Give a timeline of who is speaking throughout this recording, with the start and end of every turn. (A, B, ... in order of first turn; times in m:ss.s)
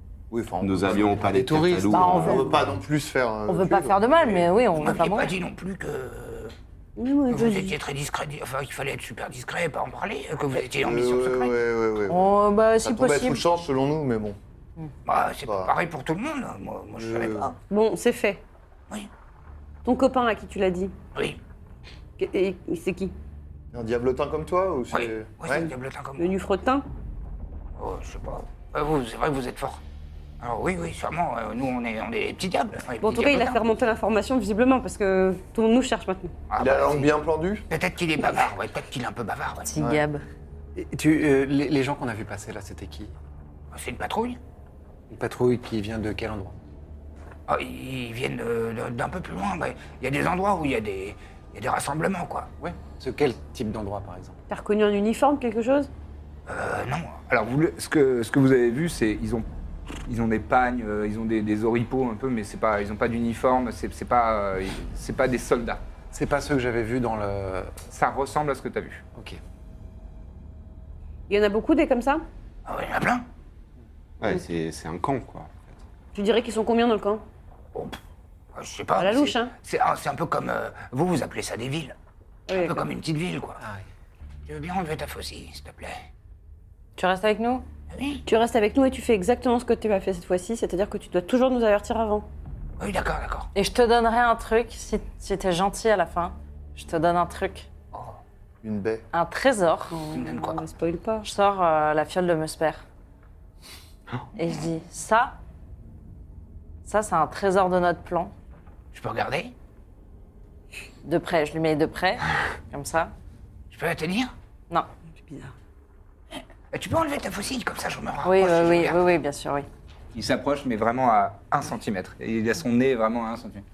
0:00.3-0:04.7 A
0:00.6-0:02.6 B
0:01.3-0:02.4 C
0:01.9-0:02.5 D
0:03.5-0:05.3 D
0:04.8-0:06.5 E
0:07.0-0:07.8 F
0:07.3-0:11.5 E
0:10.7-0:14.4 A
0:12.1-0:13.4 D
0:15.0-0:17.5 E
0:15.4-0:15.8 A
0:16.9-0:17.5 A
0:17.7-0:18.4 F
0:19.8-0:20.9 F
0:22.2-0:23.1 F
0:23.7-0:25.7 A
0:24.9-0:26.3 E
0:26.2-0:26.8 F
0:27.8-0:29.8 E
0:30.4-0:33.6 E
0:33.0-0:36.4 F
0:36.5-0:37.0 E
0:36.5-0:37.7 A
0:37.7-0:39.6 E
0:39.6-0:40.2 D
0:39.8-0:40.0 A
0:40.7-0:43.1 C
0:43.7-0:44.4 E
0:45.1-0:46.5 C
0:47.5-0:52.4 E
0:50.0-0:51.2 G
0:52.6-0:54.4 C
0:54.5-0:55.9 F
0:56.5-1:05.8 G
1:06.1-1:07.7 C
1:07.9-1:09.0 G
1:11.3-1:12.2 F
1:12.7-1:13.2 E
1:14.2-1:15.8 B
1:16.1-1:17.2 F
1:18.6-1:21.9 E
1:19.0-1:19.5 F
1:22.5-1:22.9 F
1:22.5-1:23.5 E
1:24.5-1:25.9 E
1:27.0-1:27.6 D
1:27.9-1:28.2 E
1:28.2-1:32.3 F
1:32.8-1:33.5 E
1:33.5-1:37.7 D
1:38.6-1:39.0 A
1:39.1-1:40.0 D
1:39.9-1:41.3 F
1:40.1-1:40.6 E
1:41.2-1:42.8 D
1:44.3-1:45.4 D
1:46.8-1:48.3 D
1:48.9-1:49.5 E
1:51.0-1:53.1 D
1:53.7-1:54.3 E
1:55.2-1:55.5 F
1:56.7-1:58.9 E
1:58.2-1:59.6 D
2:00.1-2:03.6 G